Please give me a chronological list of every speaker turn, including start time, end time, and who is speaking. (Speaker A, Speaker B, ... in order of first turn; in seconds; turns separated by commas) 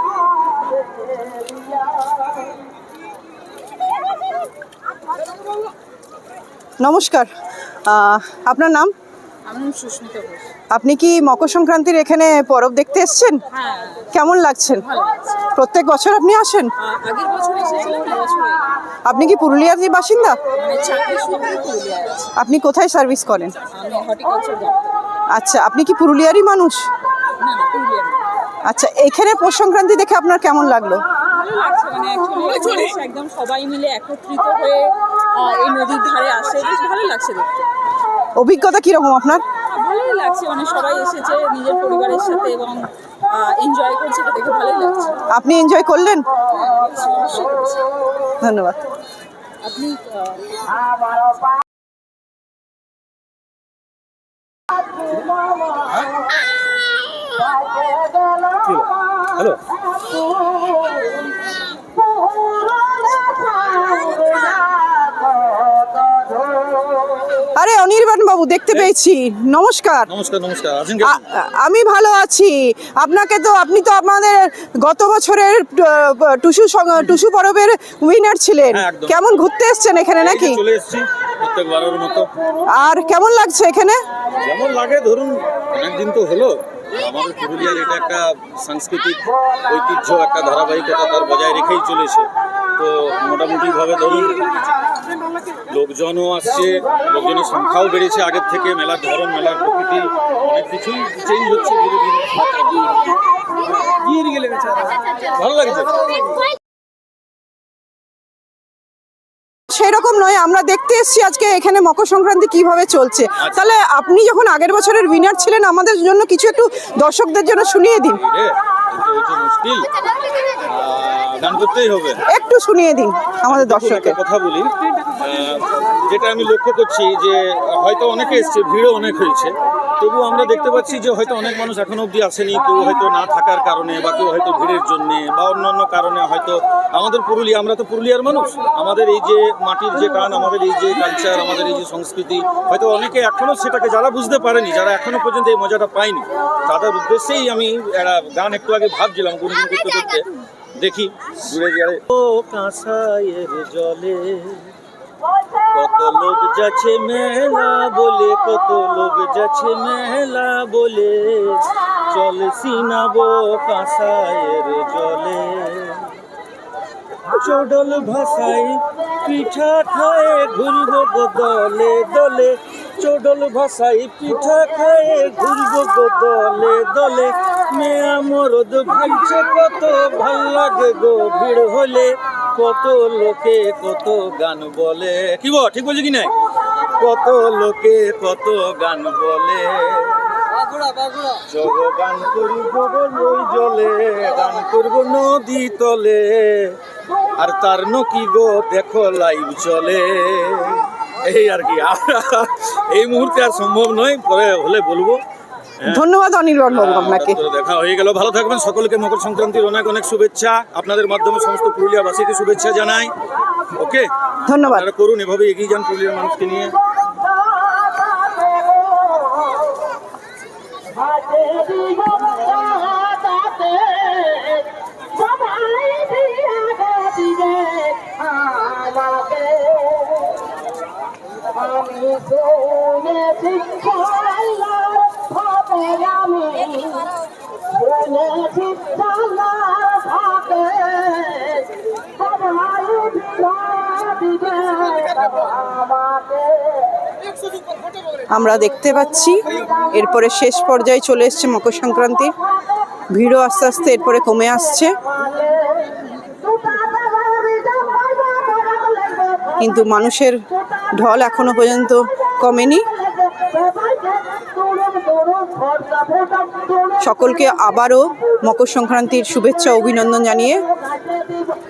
Speaker A: 6.8-7.3, Speaker A: 7.9-8.9, Speaker B: 9.5-10.5, Speaker A: 10.7-13.4, Speaker B: 13.6-14.1, Speaker A: 14.1-14.8, Speaker B: 14.9-15.4, Speaker A: 15.6-16.7, Speaker B: 16.8-18.7, Speaker A: 19.1-20.4, Speaker B: 20.6-22.3, Speaker A: 22.4-23.6, Speaker B: 23.7-25.1, Speaker A: 25.3-26.9, Speaker B: 27.4-28.3, Speaker A: 28.7-31.0, Speaker B: 31.3-37.7, Speaker A: 38.4-39.4, Speaker B: 39.6-45.2, Speaker A: 45.3-46.3, Speaker B: 46.5-48.0, Speaker A: 48.4-48.8, Speaker B: 49.6-50.9, Speaker C: 58.6-59.6, Speaker A: 67.5-70.1, Speaker C: 70.1-71.2, Speaker A: 71.0-80.6, Speaker C: 78.7-79.2, Speaker C: 80.2-82.3, Speaker A: 82.8-84.0, Speaker C: 84.4-94.6, Speaker C: 95.7-102.5, Speaker C: 103.7-106.2, Speaker A: 109.7-118.2, Speaker C: 113.4-113.7, Speaker C: 118.1-119.9, Speaker C: 120.7-122.2, Speaker A: 122.3-124.2, Speaker C: 123.5-154.7, Speaker C: 155.7-166.1, Speaker C: 167.3-186.3, Speaker C: 187.0-190.3, Speaker C: 191.3-196.8, Speaker C: 197.4-205.2, Speaker A: 205.9-207.4, Speaker C: 206.7-213.1, Speaker C: 213.8-214.1, Speaker A: 214.5-214.9, Speaker C: 214.6-216.8, Speaker A: 248.3-252.3, Speaker A: 253.1-254.9, Speaker A: 259.6-260.4, Speaker A: 260.9-262.8, Speaker A: 267.0-270.6